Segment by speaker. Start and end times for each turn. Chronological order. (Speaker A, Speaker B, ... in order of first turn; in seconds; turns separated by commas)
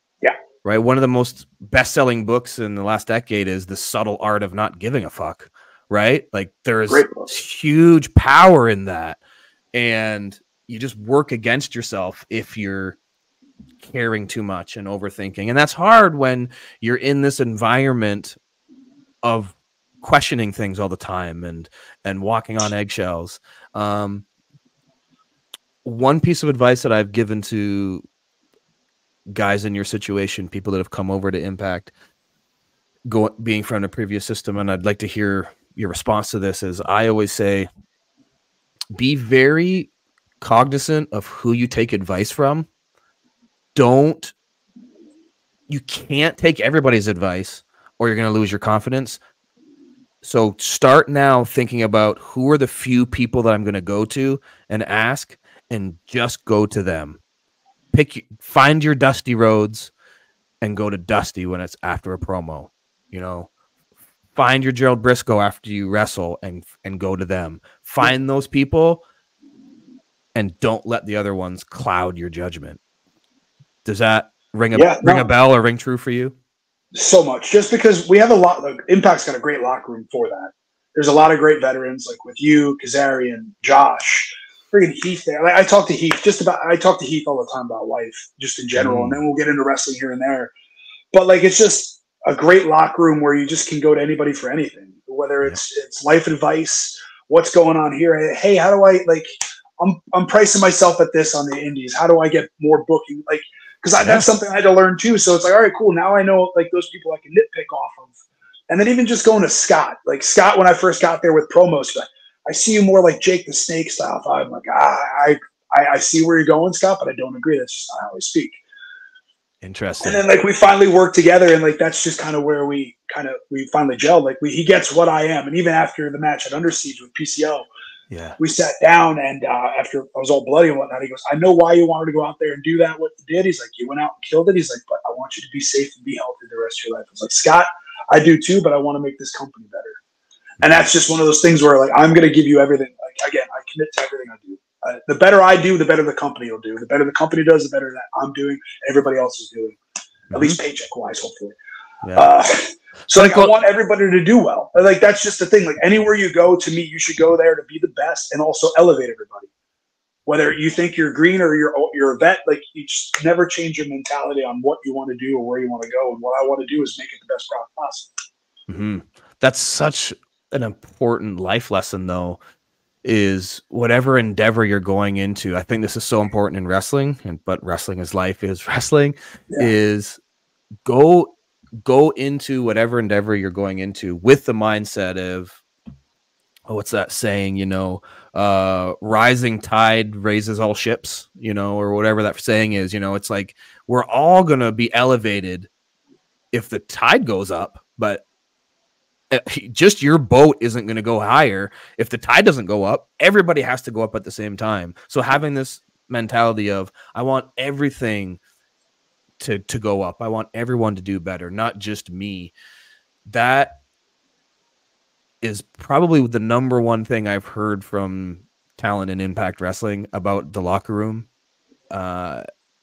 Speaker A: 0.6-9.2, Speaker B: 6.9-7.3, Speaker A: 9.7-13.0, Speaker A: 13.8-18.4, Speaker A: 19.2-24.2, Speaker A: 25.9-28.0, Speaker A: 29.3-31.9, Speaker A: 33.1-37.7, Speaker A: 39.0-42.7, Speaker A: 43.8-44.3, Speaker A: 45.7-49.2, Speaker A: 50.2-57.2, Speaker A: 57.9-59.9, Speaker A: 60.6-63.5, Speaker A: 64.3-69.0, Speaker A: 70.3-72.8, Speaker A: 73.8-76.3, Speaker B: 74.7-75.3, Speaker B: 76.9-90.5, Speaker A: 88.8-89.2, Speaker B: 91.1-99.3, Speaker B: 99.8-108.1, Speaker A: 104.0-104.3, Speaker B: 108.7-118.6, Speaker A: 119.6-120.2, Speaker B: 120.0-127.7, Speaker A: 128.1-128.4, Speaker B: 128.4-140.0, Speaker B: 140.6-149.8, Speaker A: 150.3-150.6, Speaker B: 150.3-151.6, Speaker A: 152.0-152.3, Speaker B: 152.2-159.5, Speaker A: 153.1-153.6, Speaker B: 160.3-168.1, Speaker A: 168.7-172.4, Speaker A: 173.0-180.2, Speaker A: 180.8-181.3, Speaker A: 181.8-185.6, Speaker A: 186.7-195.7, Speaker A: 196.5-198.2, Speaker A: 199.3-208.4, Speaker A: 209.4-212.5, Speaker A: 213.3-213.8, Speaker A: 215.4-221.3, Speaker A: 221.9-222.4